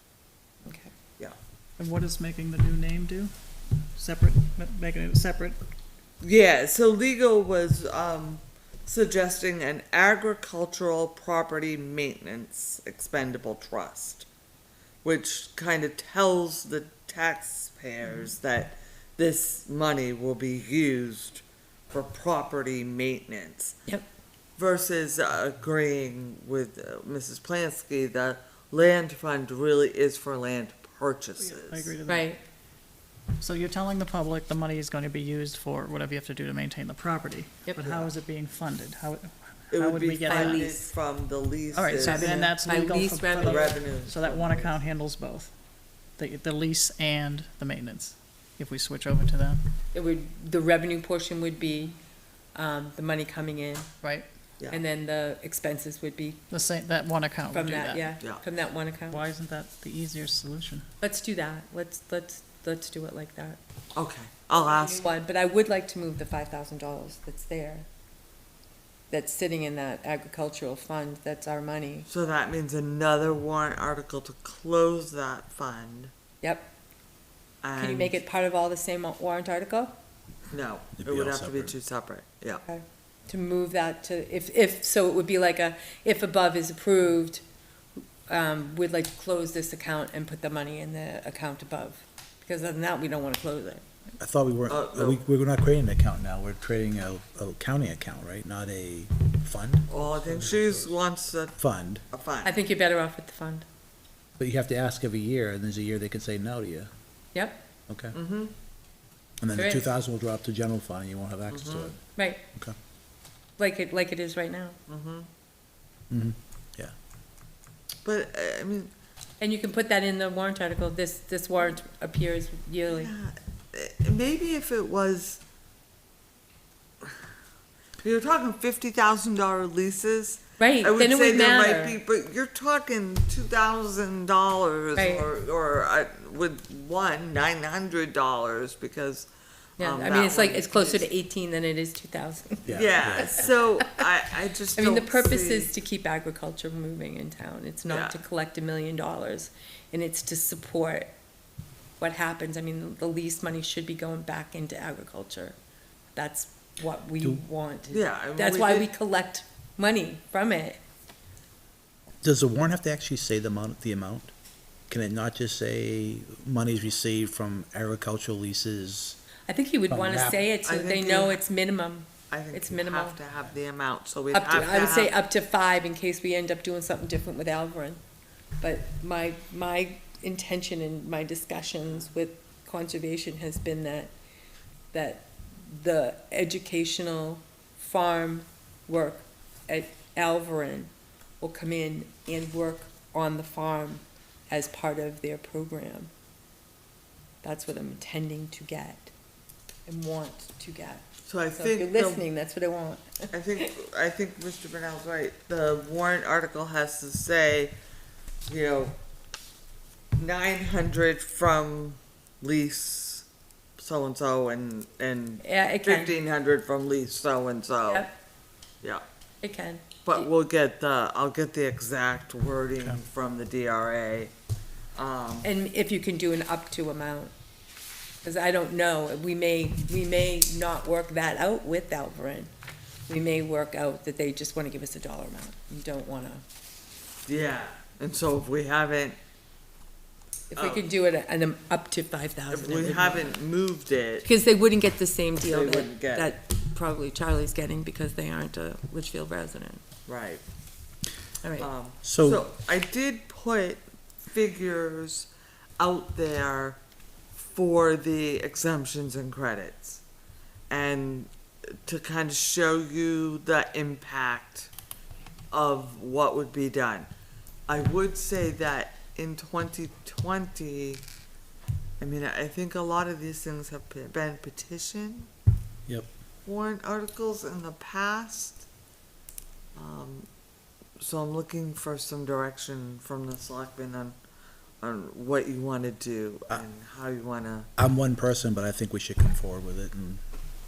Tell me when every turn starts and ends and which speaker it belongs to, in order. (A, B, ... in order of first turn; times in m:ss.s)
0:00.6-0:00.9 A
0:01.8-0:03.3 B
0:04.0-0:05.6 B
0:06.2-0:14.3 C
0:15.0-0:23.8 C
0:24.6-0:31.9 C
0:31.4-0:32.3 B
0:32.1-0:32.4 A
0:33.4-0:40.8 B
0:37.8-0:38.1 C
0:39.7-0:42.4 C
0:40.3-0:40.8 A
0:41.7-0:45.5 B
0:42.0-0:43.7 A
0:43.4-0:44.8 C
0:46.2-0:49.6 B
0:49.9-0:52.0 A
0:52.6-0:53.9 A
0:54.7-0:56.4 A
0:56.5-0:58.1 B
0:57.5-0:59.2 A
0:59.1-1:00.9 B
1:01.0-1:03.6 A
1:04.0-1:05.1 C
1:04.5-1:07.9 A
1:09.1-1:12.1 A
1:12.1-1:16.1 C
1:16.4-1:16.7 A
1:17.6-1:18.2 C
1:17.8-1:20.0 A
1:20.5-1:22.6 C
1:21.0-1:21.8 D
1:22.7-1:27.4 A
1:28.3-1:33.8 A
1:34.2-1:40.9 D
1:34.7-1:35.3 C
1:39.9-1:41.6 C
1:41.6-1:42.0 D
1:42.1-1:42.6 C
1:42.4-1:43.6 A
1:44.4-1:46.9 D
1:47.4-1:47.6 A
1:47.9-1:48.2 D
1:48.1-1:48.5 C
1:49.4-1:52.0 D
1:49.6-1:49.9 A
1:51.5-1:51.9 C
1:52.2-1:52.4 A
1:53.6-1:54.8 A
1:54.9-1:55.3 C
1:56.1-1:56.9 D
1:58.0-1:58.9 C
1:59.4-2:03.1 A
2:02.9-2:05.4 C
2:08.0-2:21.1 C
2:10.6-2:12.0 A
2:15.0-2:15.3 A
2:19.8-2:24.0 A
2:22.7-2:23.7 D
2:22.7-2:25.7 C
2:24.7-2:31.1 A
2:27.9-2:28.2 C
2:32.0-2:35.6 A
2:36.2-2:40.8 A
2:37.9-2:38.9 C
2:42.2-2:44.3 D
2:44.9-2:49.2 D
2:49.5-2:53.2 A
2:49.9-2:50.4 D
2:50.6-2:51.4 C
2:52.3-2:55.1 C
2:54.3-2:58.0 A
2:58.6-3:04.1 A
3:04.9-3:16.1 A
3:17.4-3:19.1 A
3:19.9-3:23.7 A
3:21.3-3:22.2 C
3:23.3-3:27.7 C
3:28.5-3:29.0 C
3:30.2-3:33.3 C
3:33.8-3:38.1 C
3:35.4-3:36.1 A
3:37.9-3:38.2 A
3:39.4-3:40.3 A
3:40.0-3:44.3 C
3:45.0-3:45.5 C
3:45.4-3:47.3 A
3:48.2-3:52.5 A
3:53.1-3:56.4 A
3:57.3-3:59.2 C
4:00.5-4:03.4 A
4:00.6-4:00.9 C
4:02.5-4:04.3 C
4:04.2-4:09.8 A
4:05.4-4:06.3 C
4:10.1-4:10.4 C
4:11.4-4:11.7 A
4:11.6-4:16.8 C
4:12.0-4:12.4 D
4:17.4-4:20.0 C
4:20.7-4:21.3 C
4:21.8-4:24.7 C
4:25.5-4:27.1 C
4:27.7-4:31.0 C
4:32.0-4:35.3 C
4:36.4-4:38.7 C
4:39.8-4:40.3 C
4:41.0-4:44.2 C
4:44.8-4:47.7 C
4:47.8-4:50.2 D